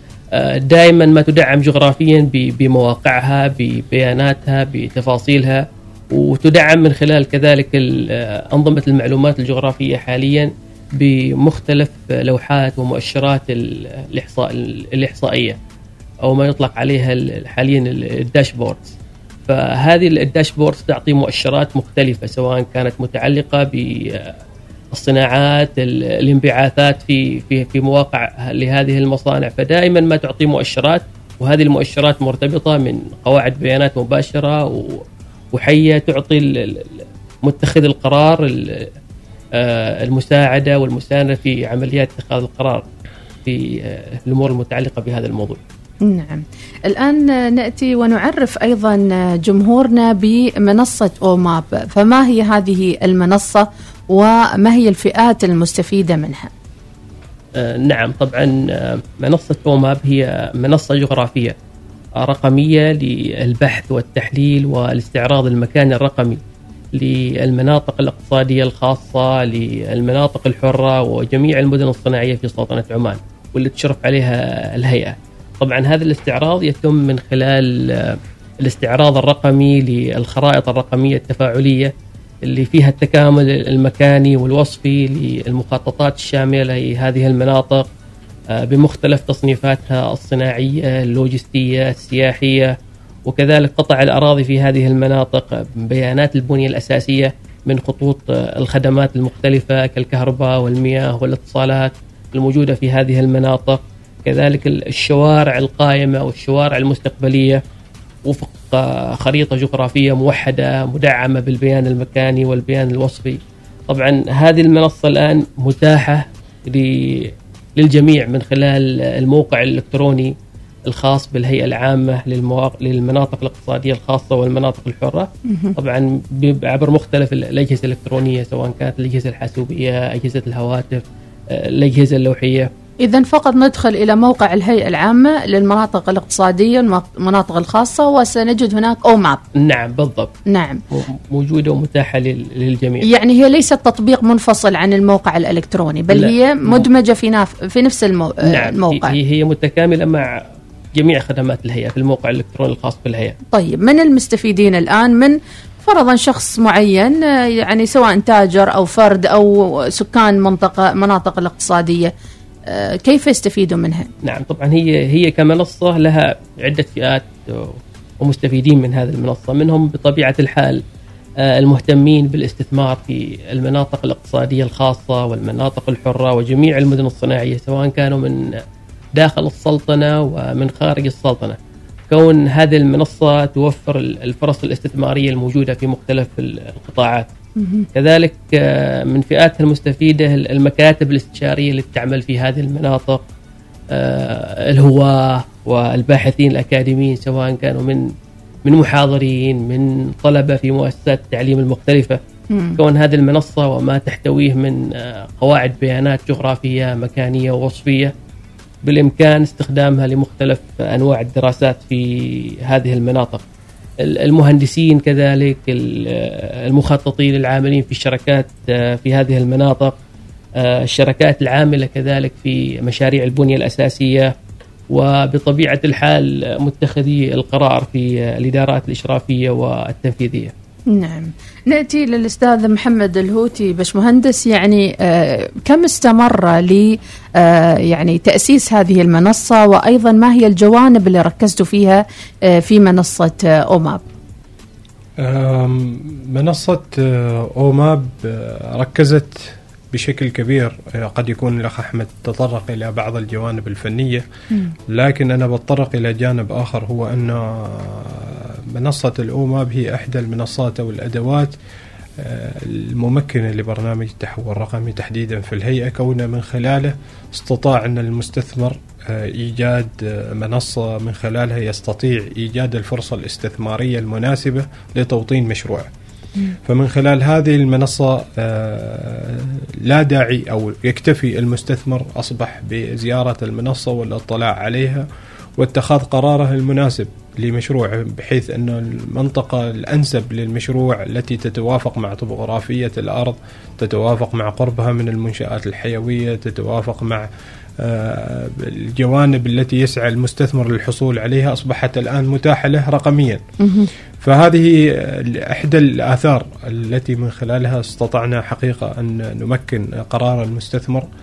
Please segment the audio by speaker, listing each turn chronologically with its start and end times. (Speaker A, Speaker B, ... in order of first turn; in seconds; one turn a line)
Speaker A: 0.3-15.6
Speaker A: 16.2-18.9
Speaker A: 19.5-24.3
Speaker A: 24.9-38.9
Speaker A: 39.5-42.8
Speaker A: 43.4-45.6
Speaker B: 46.0-56.5
Speaker A: 57.5-61.5
Speaker A: 62.2-66.4
Speaker A: 66.9-81.9
Speaker A: 82.4-87.8
Speaker A: 88.5-92.7
Speaker A: 93.2-107.6
Speaker A: 108.2-120.3
Speaker A: 120.9-132.7
Speaker B: 125.5-125.7
Speaker B: 133.0-139.4
Speaker A: 139.6-140.3
Speaker B: 140.5-140.8
Speaker A: 140.9-143.1
Speaker B: 143.0-149.2
Speaker A: 146.1-146.9
Speaker A: 148.4-150.3
Speaker A: 150.9-153.4
Speaker B: 153.5-162.1
Speaker B: 162.7-164.1
Speaker A: 164.2-170.8
Speaker A: 171.4-178.6
Speaker A: 179.1-181.6
Speaker A: 182.1-187.3
Speaker B: 187.6-187.9
Speaker A: 187.9-193.2
Speaker A: 193.9-198.1
Speaker A: 198.6-202.2
Speaker B: 202.5-202.8
Speaker A: 202.8-208.1
Speaker A: 208.8-213.4
Speaker A: 214.0-219.9
Speaker A: 220.6-224.3
Speaker A: 224.9-230.5
Speaker B: 230.9-244.0
Speaker C: 245.2-254.2
Speaker C: 254.9-261.5
Speaker C: 262.2-275.9
Speaker C: 276.6-297.3
Speaker C: 297.8-303.4
Speaker B: 303.6-303.9
Speaker C: 304.2-311.1